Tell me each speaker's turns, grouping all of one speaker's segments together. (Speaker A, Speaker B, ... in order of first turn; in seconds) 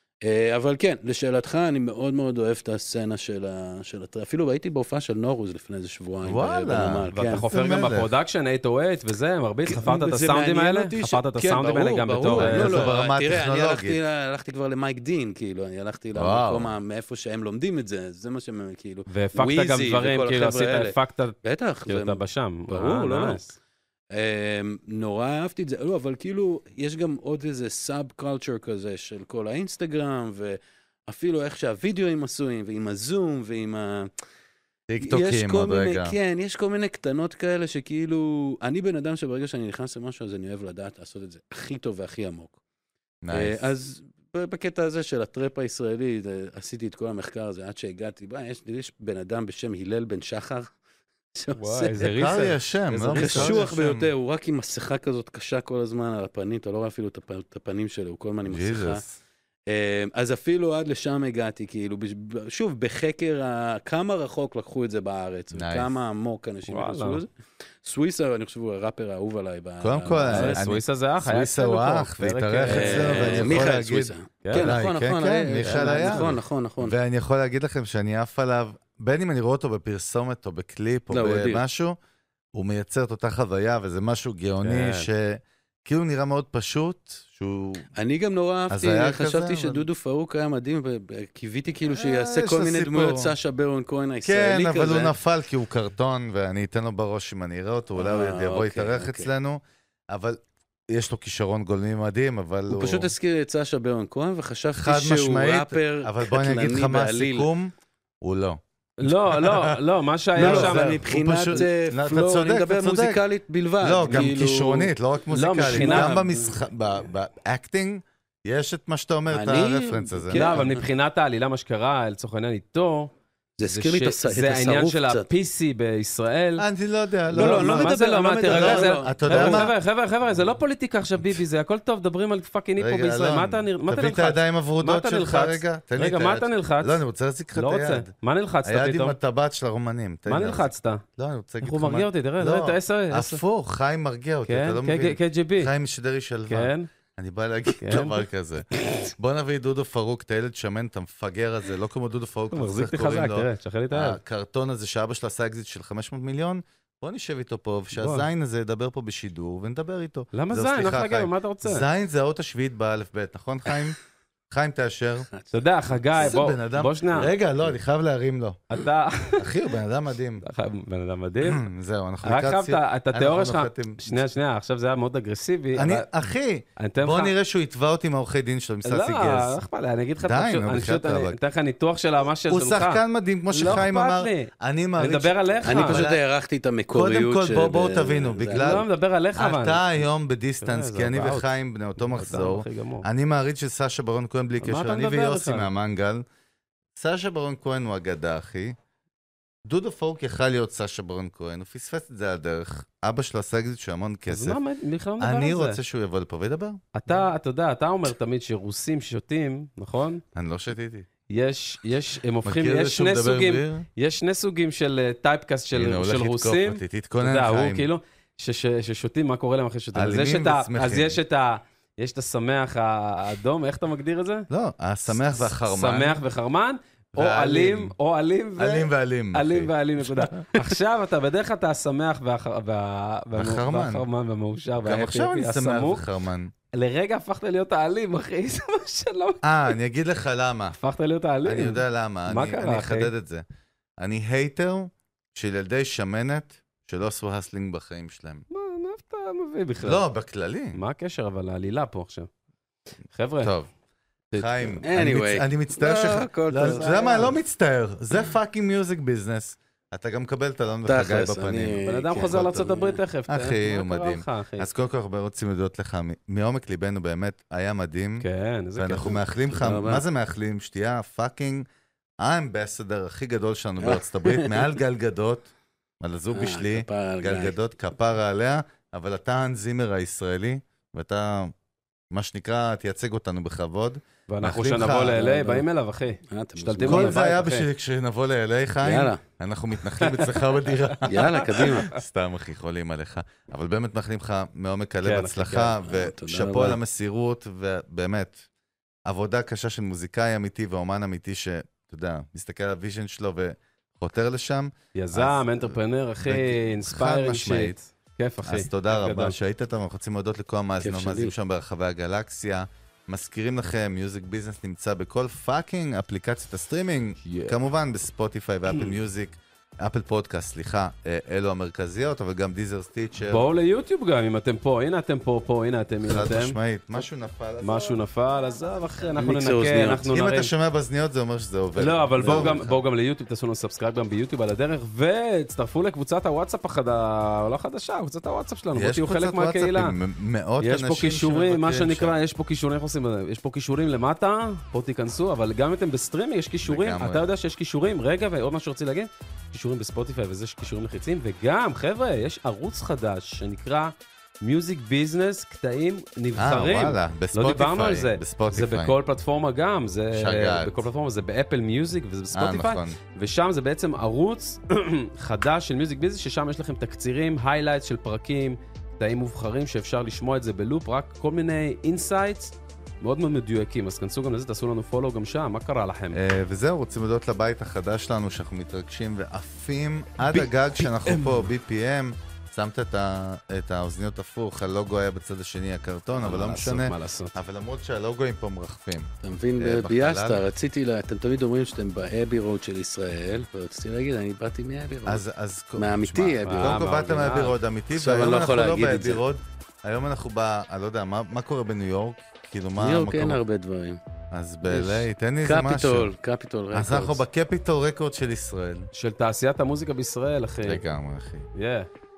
Speaker A: 0.2-7.5, 9.7-23.6, 24.1-34.1, 35.0-42.6, 43.3-50.7, 51.3-52.1, 53.1-59.0, 59.7-67.3, 67.8-70.6, 72.7-77.0, 81.1-81.6, 87.9-95.1, 98.0-99.3, 102.7-107.5, 110.3-114.9, 115.6-116.6, 119.3-120.8, 123.6-125.3, 127.3-129.7, 185.6-188.8, 254.8-257.4, 260.8-263.0, 269.5-270.0, 273.8-274.6, 276.3-277.5, 285.0-285.7, 286.2-287.2, 288.8-289.2, 291.0-291.9, 295.5-296.8, 310.8-311.3, 329.2-330.0, 332.2-332.5, 389.2-395.2, 395.8-397.0, 397.9-399.2, 402.8-404.0, 404.7-407.2
Speaker B: 6.2-8.1, 12.3-14.0, 16.1-16.7, 34.9-36.1, 43.2-43.7, 52.0-54.1, 58.5-59.2, 65.5-65.9, 69.8-82.0, 82.5-87.9, 88.7-89.8, 91.9-93.3, 94.2-103.1, 104.7-109.8, 110.3-113.2, 113.8-120.6, 126.6-129.7, 132.8-138.1, 138.6-164.0, 164.5-165.3, 166.2-168.8, 169.4-170.4, 171.4-174.2, 175.7-179.6, 180.2-181.4, 182.5-186.2, 186.9-196.2, 196.9-198.7, 199.7-204.6, 205.2-207.2, 210.3-211.1, 212.4-213.9, 215.7-217.9, 219.9-221.2, 224.5-226.2, 227.1-227.9, 228.6-230.6, 233.3-234.1, 234.8-236.5, 239.4-240.8, 241.4-243.4, 244.0-248.4, 249.8-250.8, 253.4-253.7, 254.3-262.6, 263.3-268.2, 268.8-271.6, 272.2-281.5, 282.1-285.2, 286.8-298.4, 299.1-307.7, 308.4-323.5, 326.0-328.0, 330.1-332.8, 338.7-342.1, 346.6-347.2, 356.4-358.9, 360.1-360.8, 362.3-363.0, 376.1-390.4, 395.1-403.4, 404.3-406.1, 406.7-408.9, 410.6-411.5
Speaker C: 7.1-12.9, 19.1-23.4, 51.6-53.7, 66.7-67.2, 70.3-73.6, 74.4-74.8, 75.6-76.3, 84.6-85.1, 109.0-111.0, 115.3-116.4, 120.3-123.1, 123.7-126.7, 127.3-137.0, 137.5-139.2, 140.3-141.0, 141.6-143.4, 144.5-145.7, 146.5-146.9, 147.8-148.2, 148.7-149.1, 152.5-154.2, 157.9-158.2, 160.3-161.8, 165.5-167.3, 168.7-169.5, 170.4-171.6, 172.2-176.1, 176.8-177.3, 178.8-186.0, 188.4-190.0, 190.6-193.1, 194.6-195.7, 204.3-205.8, 206.9-210.2, 211.3-224.5, 225.1-236.0, 236.7-239.5, 240.8-243.1, 248.5-250.0, 250.7-252.3, 253.1-253.5, 254.3-254.8, 261.8-264.7, 268.2-269.2, 284.3-287.7, 290.0-291.0, 295.0-295.6, 304.9-309.4, 317.2-317.6, 323.3-326.6, 327.6-330.5, 331.8-339.9, 340.6-376.2, 380.2-381.5, 386.2-387.3, 396.4-397.6, 408.9-410.8, 411.5-411.9